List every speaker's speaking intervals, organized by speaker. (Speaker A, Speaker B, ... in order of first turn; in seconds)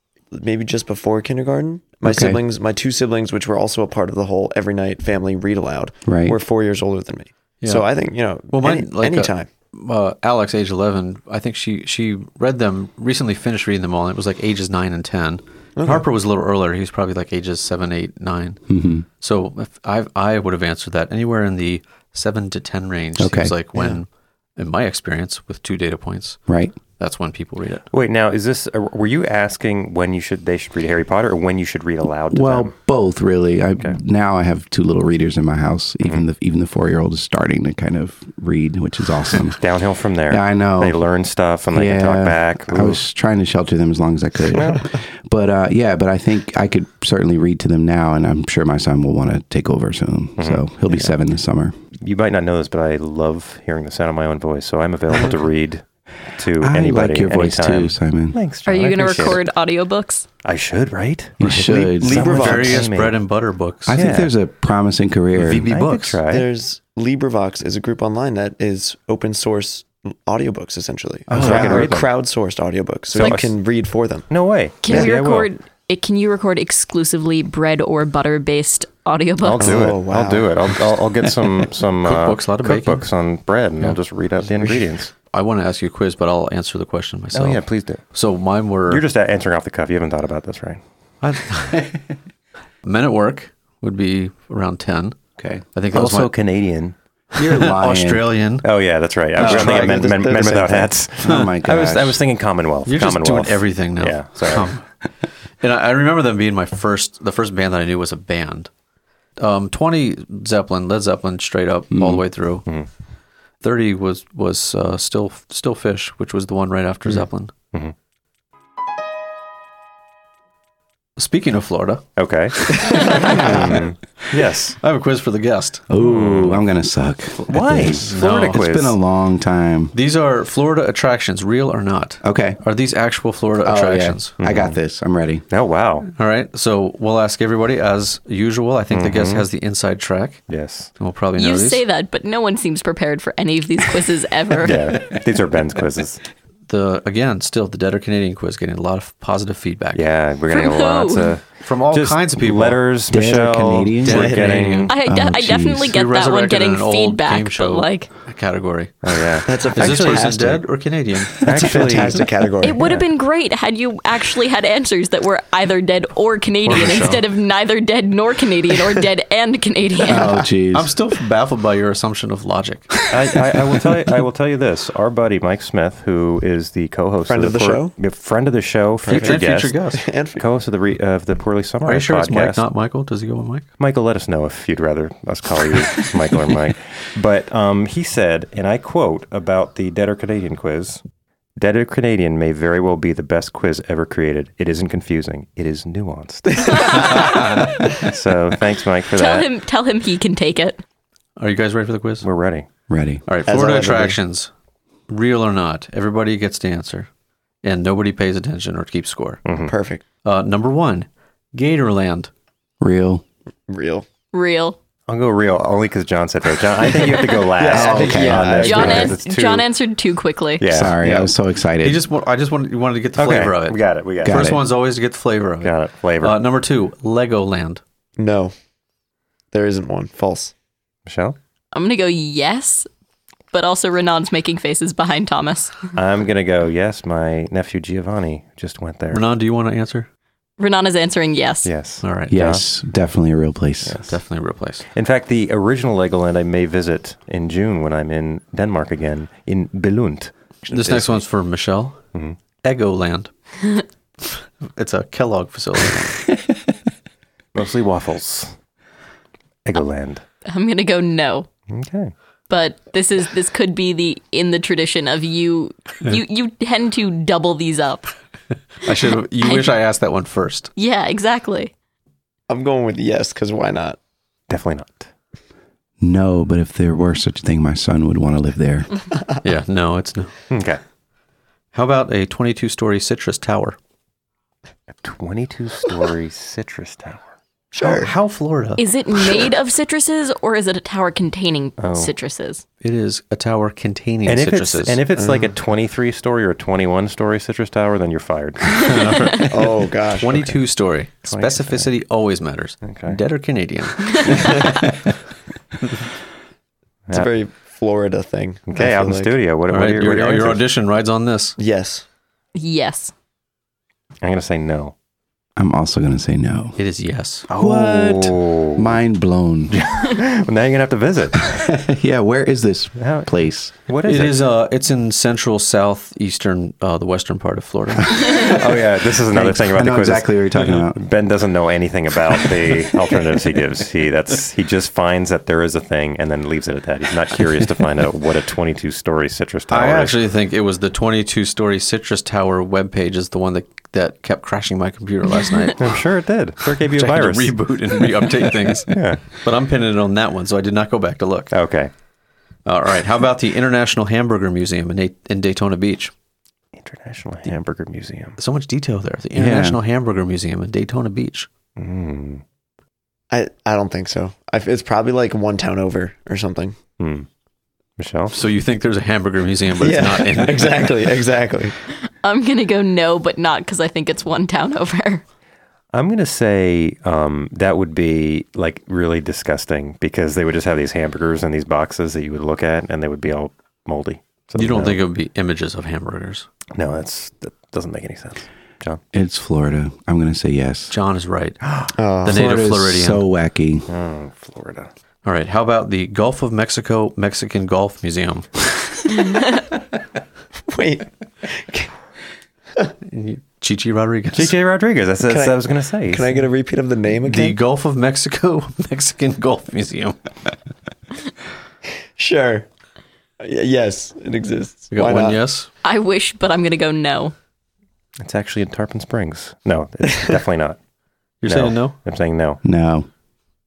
Speaker A: 0.3-9.5, 15.8-16.0, 61.7-62.9, 66.3-74.3, 79.6-80.5, 99.3-100.9, 122.9-123.6, 154.1-154.6, 159.4-160.6, 161.4-162.8, 177.3-178.0, 179.1-180.4, 203.4-204.2, 209.6-210.0, 213.7-214.1, 217.5-219.2, 228.2-228.5, 229.5-230.5, 272.5-274.0, 287.7-288.1, 295.1-295.5, 299.4-300.6, 304.3-304.6, 307.1-309.4, 311.6-312.0, 363.3-366.8, 369.8-371.7, 392.0-392.5, 400.7-401.9, 405.3-407.6, 412.2-412.6, 413.4-415.4
Speaker B: 2.0-2.4, 6.0-6.4, 18.7-19.1, 23.2-23.5, 26.5-26.7, 32.3-39.6, 40.3-41.0, 41.7-51.7, 56.6-58.4, 61.4-62.5, 63.9-65.7, 71.3-72.0, 95.4-95.6, 97.4-98.3, 101.2-102.2, 111.9-112.2, 123.2-123.8, 125.9-129.9, 132.2-132.6, 133.6-135.4, 153.1-154.3, 155.0-155.9, 170.1-170.9, 202.9-203.2, 212.8-213.2, 217.6-218.8, 220.7-222.0, 224.2-224.6, 242.3-244.0, 276.0-278.9, 315.6-316.8, 317.5-319.9, 321.4-323.7, 328.2-328.7, 329.3-331.0, 359.3-359.8, 389.1-390.9, 392.2-393.9, 422.6-423.1
Speaker C: 8.5-18.6, 19.2-26.4, 27.0-27.9, 61.5-64.1, 65.3-66.2, 82.0-83.0, 85.2-89.0, 91.2-92.0, 92.8-95.2, 95.7-96.3, 97.4-98.7, 99.4-99.8, 101.2-101.5, 102.8-104.8, 105.6-108.7, 109.4-112.6, 113.6-117.5, 121.2-123.8, 124.8-125.8, 128.0-128.6, 129.9-134.3, 136.1-141.8, 146.7-150.0, 151.6-152.8, 154.0-154.9, 155.9-159.0, 159.5-161.5, 166.7-167.2, 170.2-173.0, 179.1-180.0, 181.8-183.7, 201.4-202.3, 203.3-204.5, 205.1-207.1, 207.6-209.4, 210.2-212.3, 221.0-221.3, 221.8-227.8, 239.1-240.1, 242.0-242.3, 244.1-244.8, 250.7-252.0, 252.6-253.3, 254.2-256.2, 268.8-270.7, 279.4-280.3, 281.7-283.8, 287.8-288.8, 292.8-295.0, 298.7-304.9, 309.7-311.6, 316.8-317.5, 324.0-328.5, 339.7-346.0, 346.6-351.5, 352.6-356.1, 358.4-361.5, 368.3-370.9, 384.6-386.5, 390.9-391.6, 392.2-393.2, 395.2-398.6, 403.1-404.5, 407.2-410.1, 414.9-415.7, 421.4-422.0
Speaker D: 27.9-32.7, 39.5-43.0, 44.5-44.8, 50.4-50.7, 52.0-59.4, 60.4-63.2, 63.9-64.3, 65.6-66.5, 71.3-72.0, 73.1-73.6, 74.3-75.5, 79.4-85.1, 87.3-88.0, 88.9-90.8, 95.9-96.9, 98.6-104.7, 122.2-124.8, 126.0-126.6, 127.4-128.9, 134.4-134.8, 135.5-136.1, 138.9-139.5, 140.5-140.9, 144.6-146.2, 149.9-154.9, 159.0-160.4, 161.3-162.2, 173.1-179.8, 180.3-182.6, 183.8-191.0, 191.6-199.5, 202.2-202.7, 209.4-209.7, 215.1-219.7, 220.6-221.2, 223.2-224.5, 225.6-226.4, 231.1-231.3, 235.9-239.2, 241.6-242.6, 243.8-244.1, 244.9-251.0, 257.5-258.5, 259.6-260.2, 261.7-262.1, 274.5-275.1, 280.5-280.8, 285.0-287.3, 291.8-292.1, 294.2-299.4, 301.3-301.9, 302.8-303.2, 308.7-310.6, 314.2-314.9, 317.5-318.9, 319.7-321.6, 323.0-323.3, 323.9-324.4, 328.3-340.1, 345.8-347.7, 348.9-349.3, 351.5-351.9, 356.8-358.4, 361.8-362.4, 367.0-367.3, 368.0-368.4, 375.9-385.0, 386.7-389.0, 391.6-391.9, 393.9-394.9, 404.3-406.3, 418.2-420.8, 421.4-422.6
Speaker E: 58.6-60.3, 74.8-79.8, 141.4-144.9, 150.5-151.3, 154.9-158.1, 162.6-170.3, 199.1-200.8, 214.3-214.8, 218.6-220.6, 231.7-232.9, 233.5-235.8, 240.6-241.7, 260.4-261.5, 262.5-268.1, 269.4-269.7, 270.8-271.7, 288.8-292.6, 312.5-313.1, 372.1-375.2, 415.8-417.3